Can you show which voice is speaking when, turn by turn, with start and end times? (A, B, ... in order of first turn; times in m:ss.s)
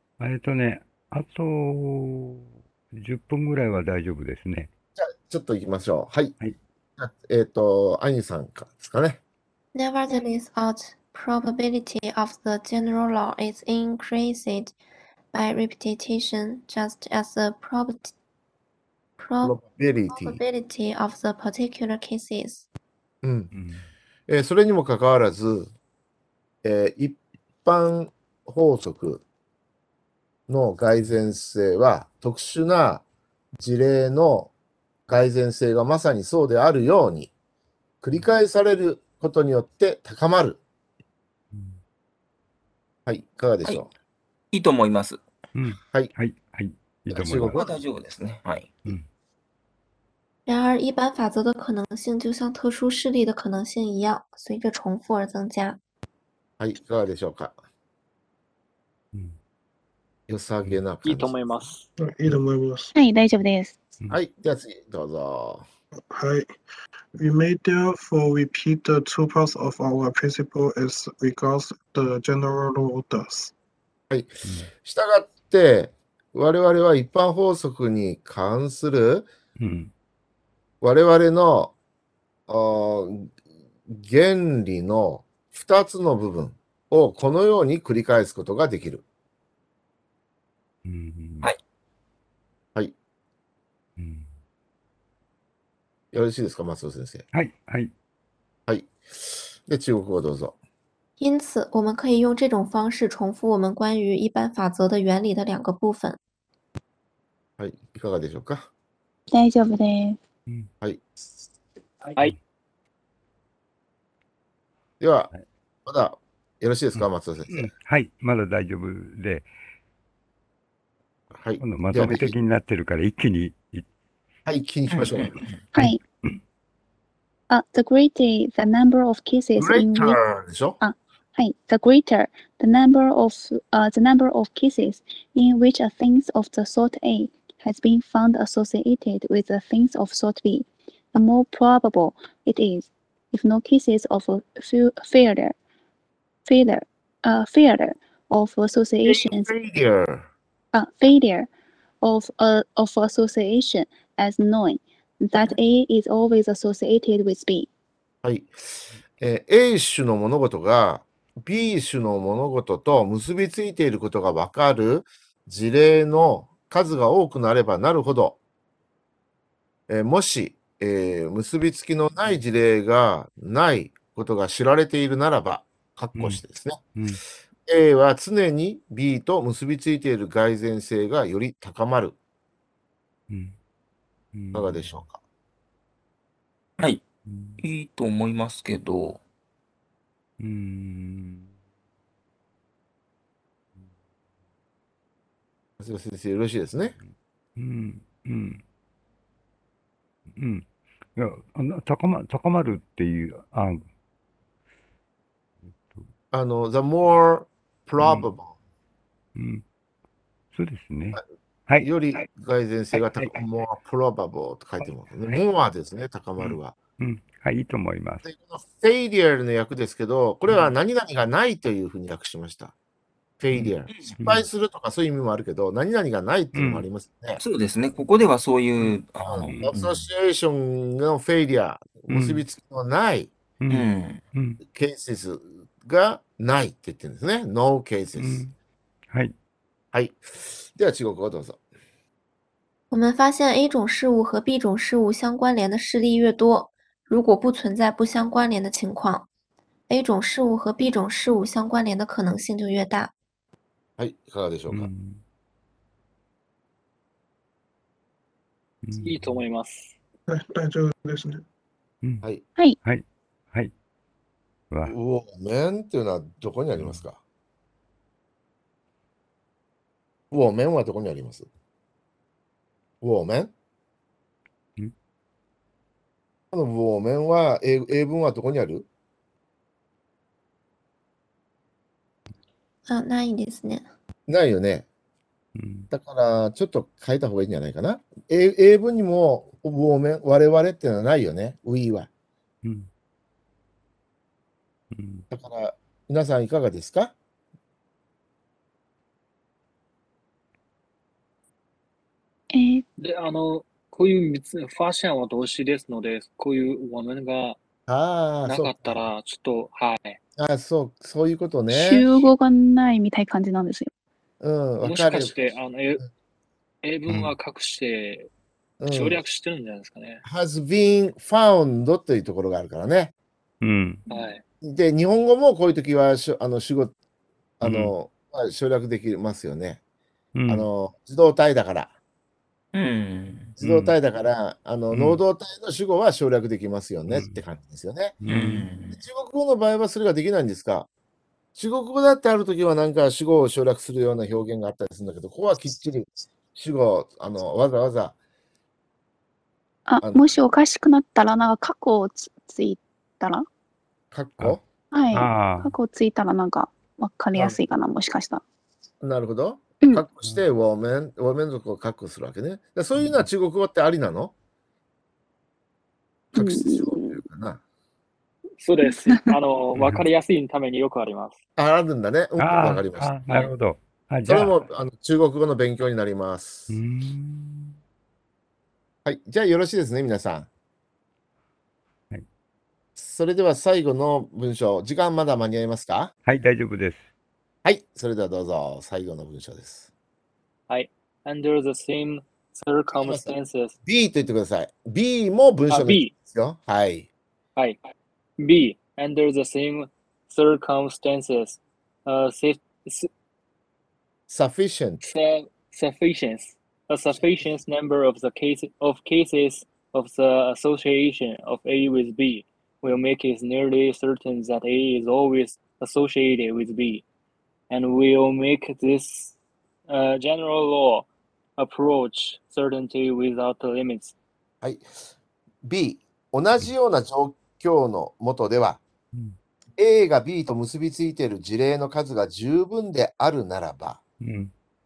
0:00.2-0:04.7 A
0:05.0-0:06.3 B
0:07.0-0:09.2 B
0:09.7-0:14.7 C
0:15.3-0:18.1 C
0:19.2-0:22.7 C
0:19.4-0:20.4 B
0:23.2-0:23.5 B
0:23.5-0:23.9 A
0:24.3-0:25.7 B
0:26.6-0:29.2 B
0:30.5-0:33.0 B
0:33.6-0:34.5 B
0:35.1-0:37.3 B
0:38.0-0:40.6 B
0:41.5-0:41.8 A
0:43.1-0:43.9 B
0:44.5-0:45.2 D
0:45.6-0:47.6 A
0:47.1-0:47.7 B
0:47.5-0:48.8 D
0:50.5-0:55.8 C
0:56.6-0:57.6 B
1:00.3-1:01.4 B
1:01.0-1:01.9 E
1:02.0-1:02.9 F
1:03.0-1:03.8 G
1:04.1-1:05.6 B
1:06.1-1:06.5 F
1:07.2-1:13.5 F
1:14.1-1:19.3 B
1:14.4-1:14.7 A
1:19.6-1:19.9 A
1:20.8-1:21.7 B
1:22.5-1:23.3 B
1:23.9-1:29.0 B
1:30.8-1:31.5 A
1:34.0-1:34.3 A
1:36.1-1:37.2 B
1:37.3-1:37.9 A
1:38.7-1:40.6 B
1:41.2-1:46.2 C
1:47.6-1:48.7 B
1:49.3-1:50.2 G
1:50.8-1:51.1 B
1:55.0-1:55.3 B
1:55.9-1:57.7 B
1:57.0-1:59.5 A
2:01.3-2:02.3 B
2:01.6-2:03.9 A
2:04.5-2:05.4 B
2:04.9-2:05.6 D
2:05.7-2:06.0 G
2:05.8-2:06.3 A
2:07.5-2:10.2 G
2:09.6-2:10.8 B
2:10.8-2:25.6 G
2:26.5-2:29.5 G
2:29.0-2:30.3 B
2:30.7-2:31.5 G
2:32.0-2:37.7 G
2:38.2-2:38.6 B
2:39.2-2:48.4 B
2:49.9-2:56.8 B
2:56.2-2:56.4 A
2:57.0-2:57.2 A
2:57.7-3:02.2 B
3:03.3-3:03.6 A
3:04.3-3:04.9 A
3:04.5-3:05.2 B
3:07.2-3:07.6 A
3:07.6-3:09.2 D
3:10.4-3:11.5 A
3:15.8-3:17.0 B
3:17.6-3:18.6 A
3:20.4-3:23.9 A
3:25.6-3:26.1 A
3:26.3-3:28.5 B
3:28.0-3:28.3 A
3:29.4-3:29.6 A
3:30.5-3:32.2 A
3:31.8-3:36.8 B
3:32.9-3:33.4 A
3:34.8-3:35.4 A
3:36.4-3:38.3 A
3:38.2-3:42.7 B
3:40.5-3:40.7 A
3:43.4-3:47.4 B
3:43.5-3:44.5 A
3:46.6-3:46.9 A
3:47.4-3:49.6 D
3:49.2-3:53.3 B
3:49.4-3:50.1 A
3:52.1-3:52.4 A
3:53.6-3:54.6 A
3:53.7-3:54.2 D
3:54.6-3:58.4 B
3:58.2-3:58.6 A
3:59.9-4:01.6 B
4:02.9-4:09.3 C
4:09.9-4:13.1 C
4:14.0-4:14.9 B
4:14.7-4:15.2 A
4:18.8-4:19.4 A
4:19.0-4:20.0 E
4:20.3-4:21.4 F
4:22.8-4:23.7 A
4:24.7-4:25.0 A
4:24.8-4:27.2 B
4:26.8-4:27.0 A
4:30.3-4:31.5 B
4:33.0-4:33.5 B
4:36.5-4:38.9 B
4:42.9-4:43.9 C
4:44.3-4:44.9 B
4:45.6-4:45.9 A
4:45.9-4:52.1 B
4:54.9-4:55.3 A
4:55.3-4:57.2 B
5:02.5-5:02.8 G
5:03.0-5:07.6 E
5:07.9-5:09.1 B
5:08.4-5:10.2 E
5:10.4-5:12.3 B
5:11.7-5:13.9 G
5:14.4-5:15.5 B
5:14.8-5:16.0 E
5:16.8-5:18.3 E
5:18.8-5:19.2 B
5:18.9-5:20.2 E
5:20.2-5:23.1 B
5:23.6-5:24.0 A
5:24.1-5:24.4 E
5:24.6-5:26.9 B
5:27.6-5:29.8 B
5:27.6-5:27.9 A
5:30.4-5:30.7 A
5:30.5-5:31.9 B
5:32.7-5:33.5 D
5:33.6-5:38.2 B
5:33.6-5:34.0 A
5:34.9-5:35.2 A
5:37.1-5:37.4 A
5:38.2-5:38.7 A
5:38.3-5:39.0 D
5:38.9-5:40.9 B
5:41.6-5:48.2 B
5:49.9-5:53.5 G
5:50.0-5:50.4 B
5:54.1-5:54.6 B
5:54.9-5:58.4 G
5:55.1-5:55.7 A
5:59.0-6:04.3 B
6:03.0-6:03.3 A
6:06.3-6:07.6 B
6:06.4-6:07.2 G
6:08.6-6:11.4 E
6:08.9-6:09.4 G
6:09.8-6:10.0 A
6:11.6-6:13.2 B
6:12.4-6:14.6 A
6:14.3-6:16.8 B
6:16.7-6:17.8 A
6:19.0-6:20.5 B
6:23.0-6:26.1 B
6:26.3-6:27.1 A
6:27.6-6:29.9 B
6:30.7-6:33.8 E
6:32.9-6:33.3 B
6:33.8-6:37.1 B
6:35.7-6:36.1 E
6:38.4-6:43.1 E
6:44.3-6:45.0 B
6:45.0-6:57.0 E
6:57.7-6:59.4 E
6:59.9-7:04.2 E
7:05.6-7:08.8 B
7:09.8-7:14.0 B
7:14.2-7:14.5 A